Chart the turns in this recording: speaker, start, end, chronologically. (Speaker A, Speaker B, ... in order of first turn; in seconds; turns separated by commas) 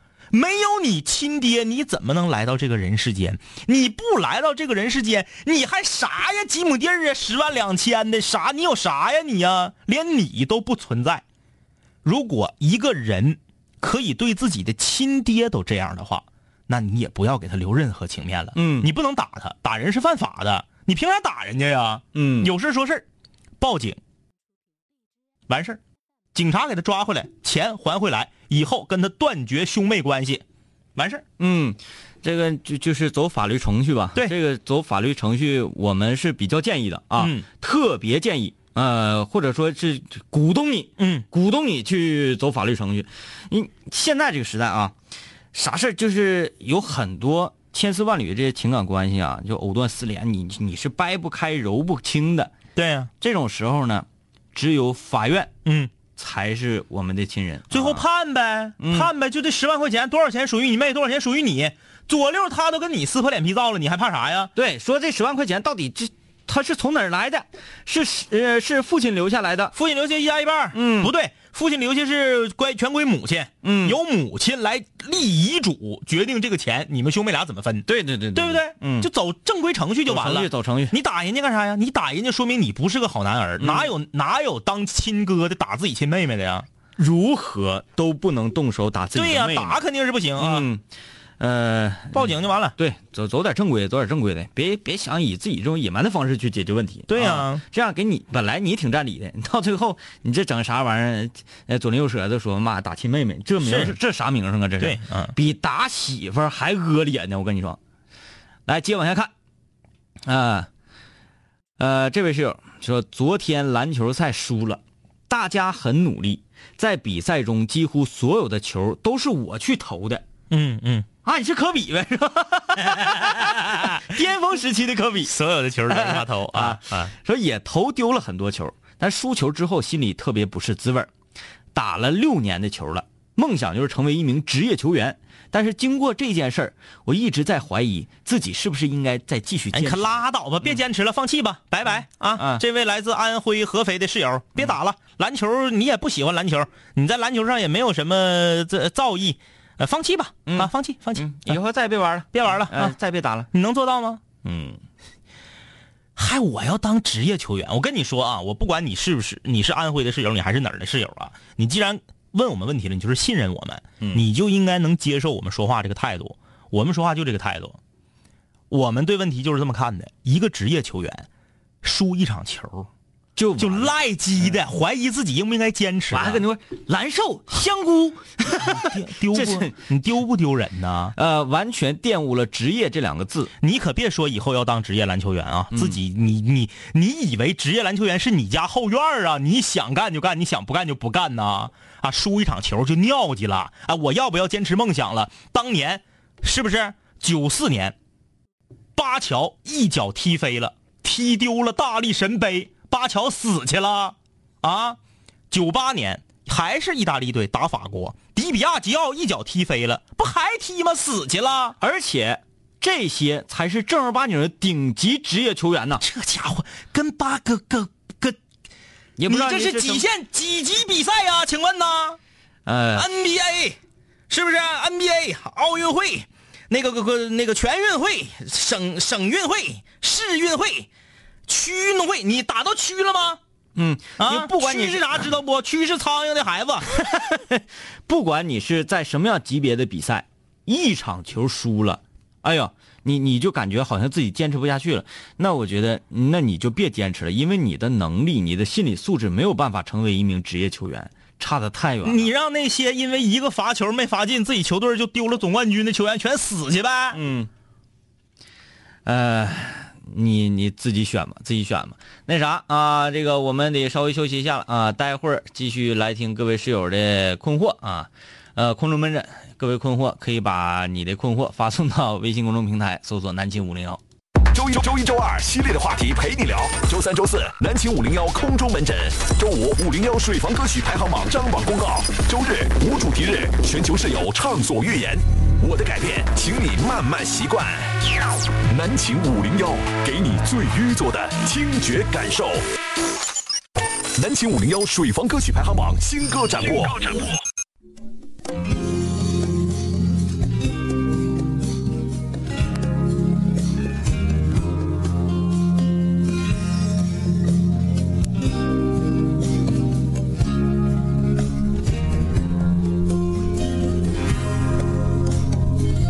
Speaker A: 0.3-11.2, Speaker A: 12.0-23.1, Speaker B: 18.6-18.9, Speaker B: 22.1-22.5, Speaker A: 23.6-24.0, Speaker A: 25.5-25.8, Speaker A: 26.3-30.4, Speaker A: 31.0-31.2, Speaker B: 31.4-44.9, Speaker A: 37.2-37.5, Speaker A: 41.0-41.3, Speaker B: 45.5-52.5, Speaker A: 52.8-53.1, Speaker B: 53.2-55.5, Speaker A: 55.6-55.9, Speaker B: 56.2-58.0, Speaker A: 57.7-64.5, Speaker B: 58.8-59.1, Speaker B: 64.5-69.7, Speaker A: 69.7-86.7, Speaker B: 70.7-71.1, Speaker B: 73.6-74.0, Speaker B: 77.9-79.1, Speaker B: 80.1-80.9, Speaker B: 83.6-83.9, Speaker B: 87.0-89.8, Speaker A: 89.2-90.7, Speaker B: 90.4-90.8, Speaker B: 91.4-107.8, Speaker A: 92.1-92.8, Speaker A: 97.1-97.6, Speaker A: 103.6-104.0, Speaker A: 104.8-105.3, Speaker B: 108.7-109.3, Speaker B: 110.3-110.7, Speaker B: 111.8-120.2, Speaker A: 120.5-121.1, Speaker B: 121.2-125.3, Speaker A: 122.9-124.0, Speaker A: 125.2-127.1, Speaker B: 125.9-131.1, Speaker B: 131.7-140.2, Speaker A: 139.7-151.6, Speaker B: 142.4-142.6, Speaker B: 150.5-153.5, Speaker A: 152.3-153.0, Speaker A: 153.5-154.2, Speaker B: 154.4-154.8, Speaker A: 156.2-167.8, Speaker A: 168.7-171.3, Speaker A: 171.8-172.9, Speaker B: 173.4-174.6, Speaker A: 173.6-176.4, Speaker B: 176.1-179.8, Speaker A: 178.6-181.2, Speaker B: 181.2-183.5, Speaker A: 183.6-197.9, Speaker B: 185.7-186.0, Speaker A: 199.0-205.0, Speaker A: 205.5-211.8, Speaker B: 211.8-216.0, Speaker A: 216.0-218.4, Speaker B: 219.2-220.0, Speaker A: 219.3-222.2, Speaker B: 222.7-223.1, Speaker A: 223.0-223.8, Speaker A: 224.3-230.9, Speaker A: 231.5-233.4, Speaker B: 233.8-235.2, Speaker A: 234.2-237.1, Speaker B: 237.0-252.3, Speaker A: 252.0-257.2, Speaker B: 257.1-257.5, Speaker B: 259.1-274.0, Speaker C: 274.5-288.0, Speaker C: 288.7-292.7, Speaker C: 294.2-297.3